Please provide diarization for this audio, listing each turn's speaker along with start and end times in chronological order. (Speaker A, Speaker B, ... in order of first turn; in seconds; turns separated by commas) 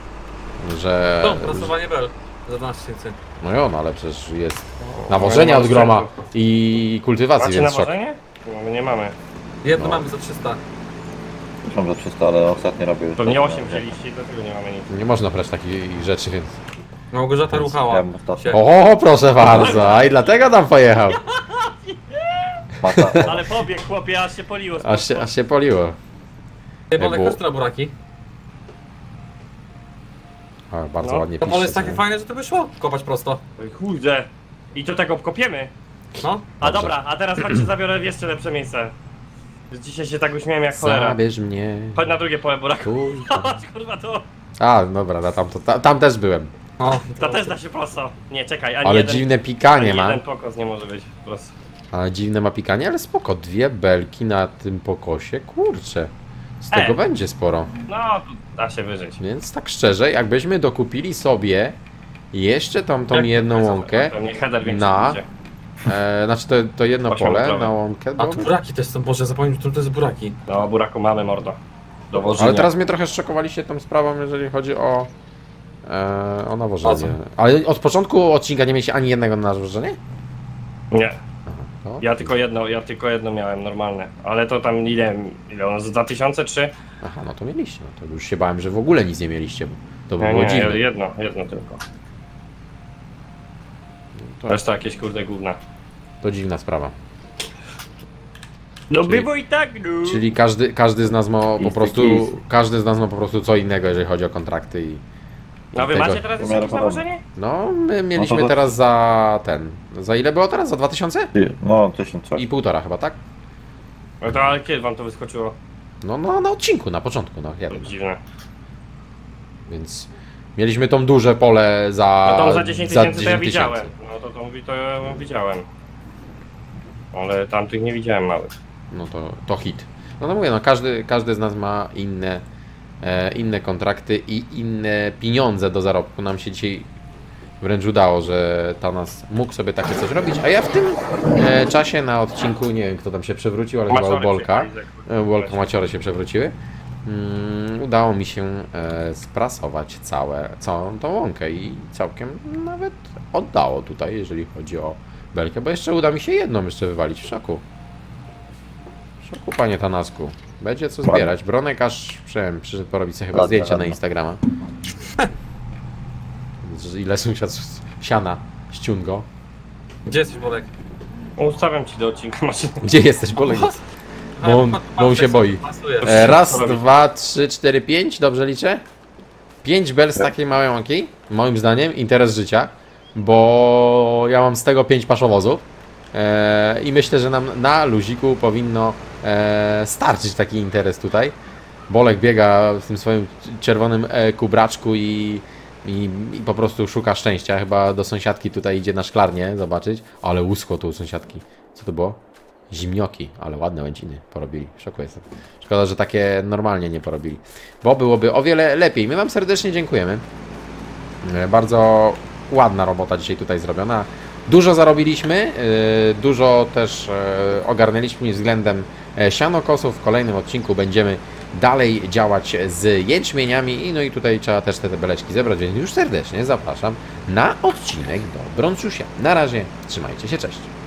Speaker A: 0.6-1.7, Speaker B: 1.2-3.2, Speaker A: 3.4-7.9, Speaker C: 4.8-6.1, Speaker C: 7.4-9.1, Speaker B: 9.6-10.6, Speaker A: 9.7-10.0, Speaker D: 11.6-13.9, Speaker C: 13.2-14.9, Speaker A: 14.9-16.6, Speaker B: 17.1-18.6, Speaker A: 17.4-17.8, Speaker D: 17.9-18.6, Speaker A: 18.5-21.2, Speaker C: 19.4-20.0, Speaker C: 21.3-22.6, Speaker D: 22.8-23.5, Speaker A: 22.8-23.4, Speaker C: 23.2-25.3, Speaker A: 24.8-26.0, Speaker B: 26.9-27.9, Speaker A: 27.0-27.4, Speaker A: 30.7-32.0, Speaker B: 31.4-33.4, Speaker C: 33.6-35.7, Speaker A: 36.1-37.0, Speaker B: 36.2-36.5, Speaker C: 36.6-38.9, Speaker C: 39.7-41.2, Speaker A: 40.7-42.1, Speaker C: 41.9-44.2, Speaker A: 42.8-43.6, Speaker A: 44.6-46.5, Speaker B: 46.8-47.5, Speaker C: 47.1-51.5, Speaker A: 48.8-50.2, Speaker A: 51.9-57.7, Speaker C: 56.7-57.0, Speaker C: 57.9-59.2, Speaker A: 59.2-61.8, Speaker A: 62.3-65.2, Speaker C: 63.1-65.2, Speaker A: 65.8-68.5, Speaker C: 67.1-67.7, Speaker B: 68.2-70.4, Speaker C: 70.5-71.6, Speaker C: 72.1-72.7, Speaker A: 72.4-75.1, Speaker A: 75.8-80.0, Speaker B: 76.8-77.2, Speaker C: 80.9-81.2, Speaker A: 81.5-82.3, Speaker C: 82.0-86.7, Speaker A: 87.0-90.8, Speaker C: 90.2-91.8, Speaker A: 94.2-94.6, Speaker C: 94.5-95.6, Speaker A: 96.2-96.9, Speaker C: 98.9-100.2, Speaker A: 99.0-99.3, Speaker A: 100.0-105.0, Speaker D: 101.6-102.4, Speaker A: 105.7-106.2, Speaker C: 105.7-107.2, Speaker D: 106.4-107.0, Speaker A: 107.3-111.3, Speaker D: 108.2-108.6, Speaker D: 111.3-112.4, Speaker A: 112.4-113.2, Speaker C: 114.2-115.5, Speaker A: 116.0-117.9, Speaker C: 117.7-118.2, Speaker A: 119.7-123.9, Speaker C: 122.2-125.7, Speaker C: 127.1-128.5, Speaker A: 128.9-132.4, Speaker A: 133.0-136.9, Speaker A: 137.6-146.5, Speaker C: 143.9-145.6, Speaker A: 147.1-157.6, Speaker A: 159.2-164.4, Speaker D: 161.1-161.3, Speaker D: 163.3-164.0, Speaker A: 166.6-169.2, Speaker B: 170.1-170.7, Speaker C: 171.4-172.8, Speaker A: 172.8-173.8, Speaker B: 173.4-173.7, Speaker B: 174.4-176.3, Speaker A: 174.4-178.8, Speaker C: 176.0-176.8, Speaker A: 179.6-191.3, Speaker A: 191.9-202.2, Speaker A: 202.7-210.2, Speaker A: 211.2-230.7